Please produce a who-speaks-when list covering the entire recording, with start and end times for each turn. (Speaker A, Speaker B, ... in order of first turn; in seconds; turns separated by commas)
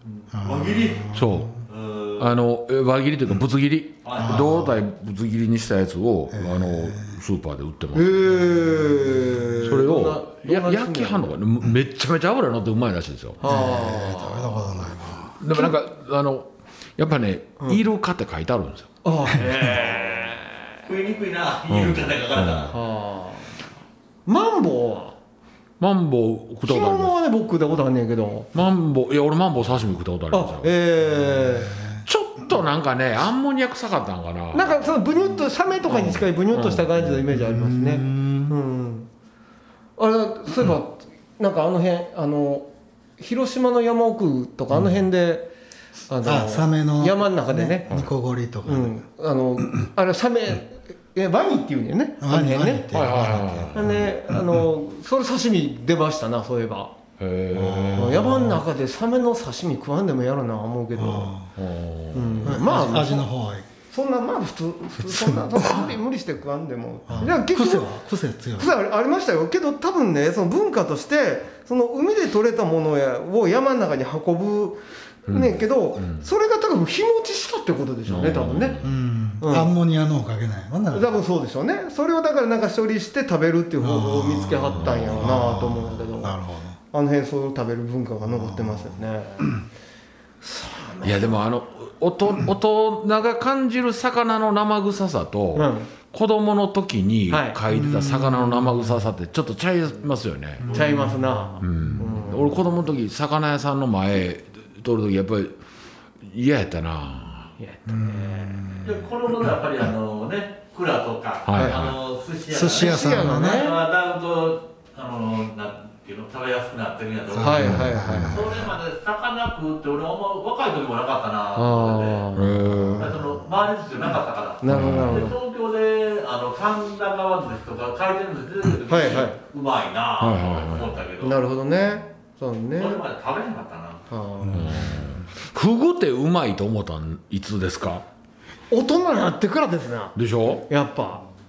Speaker A: 0.2-1.1, Speaker B: 0.3-1.5, Speaker C: 1.1-1.5, Speaker A: 1.7-2.3, Speaker C: 2.2-8.4, Speaker A: 4.0-4.5, Speaker B: 4.2-4.7, Speaker B: 6.3-7.2, Speaker D: 7.9-11.3, Speaker C: 9.6-13.4, Speaker D: 13.4-14.8, Speaker B: 13.4-15.4, Speaker C: 15.4-18.9, Speaker D: 19.0-20.8, Speaker A: 20.9-22.8, Speaker C: 21.7-22.7, Speaker D: 22.7-23.6, Speaker D: 24.2-25.1, Speaker C: 25.8-27.1, Speaker D: 26.6-28.5, Speaker C: 28.5-30.7, Speaker D: 30.3-31.8, Speaker B: 31.7-32.0, Speaker C: 32.0-34.8, Speaker D: 34.5-39.1, Speaker C: 35.9-37.0, Speaker B: 37.3-38.6, Speaker D: 40.0-42.7, Speaker D: 43.2-45.5, Speaker D: 46.1-47.9, Speaker B: 46.2-49.0, Speaker D: 48.6-52.9, Speaker B: 52.2-54.1, Speaker C: 52.9-54.1, Speaker D: 53.7-56.9, Speaker C: 57.2-58.4, Speaker B: 57.5-58.6, Speaker D: 58.0-61.4, Speaker B: 61.0-61.5, Speaker C: 61.5-62.6, Speaker D: 62.1-63.3, Speaker B: 62.4-63.7, Speaker D: 63.9-67.9, Speaker B: 65.0-65.9, Speaker B: 67.1-68.7, Speaker D: 68.6-78.8, Speaker C: 75.3-76.2, Speaker C: 78.1-78.9, Speaker B: 78.8-81.1, Speaker D: 79.4-79.7, Speaker D: 80.9-86.4, Speaker B: 83.8-86.8, Speaker C: 84.7-85.2, Speaker D: 86.9-89.5, Speaker B: 88.2-88.9, Speaker D: 90.4-91.4, Speaker C: 91.0-100.6, Speaker D: 95.5-95.9, Speaker D: 97.3-97.6, Speaker B: 97.7-99.0, Speaker B: 100.6-101.3, Speaker A: 100.6-101.1, Speaker D: 100.7-102.5, Speaker C: 101.6-105.5, Speaker C: 106.2-107.5, Speaker D: 107.6-108.7, Speaker B: 107.9-109.0, Speaker A: 108.8-122.2, Speaker C: 111.5-112.0, Speaker D: 111.6-111.8, Speaker B: 112.5-113.7, Speaker D: 112.7-113.8, Speaker B: 117.3-118.7, Speaker D: 117.4-118.4, Speaker C: 117.6-118.4, Speaker D: 121.5-122.9, Speaker C: 122.3-123.1, Speaker B: 122.7-123.4, Speaker A: 123.0-131.4, Speaker D: 124.6-125.4, Speaker C: 124.7-125.2, Speaker D: 128.9-129.4, Speaker C: 130.2-130.9, Speaker D: 131.2-133.0, Speaker A: 132.8-134.1, Speaker D: 134.1-134.7, Speaker B: 134.4-135.2, Speaker C: 134.5-138.0, Speaker D: 138.7-140.2, Speaker C: 140.2-140.7, Speaker D: 140.7-141.2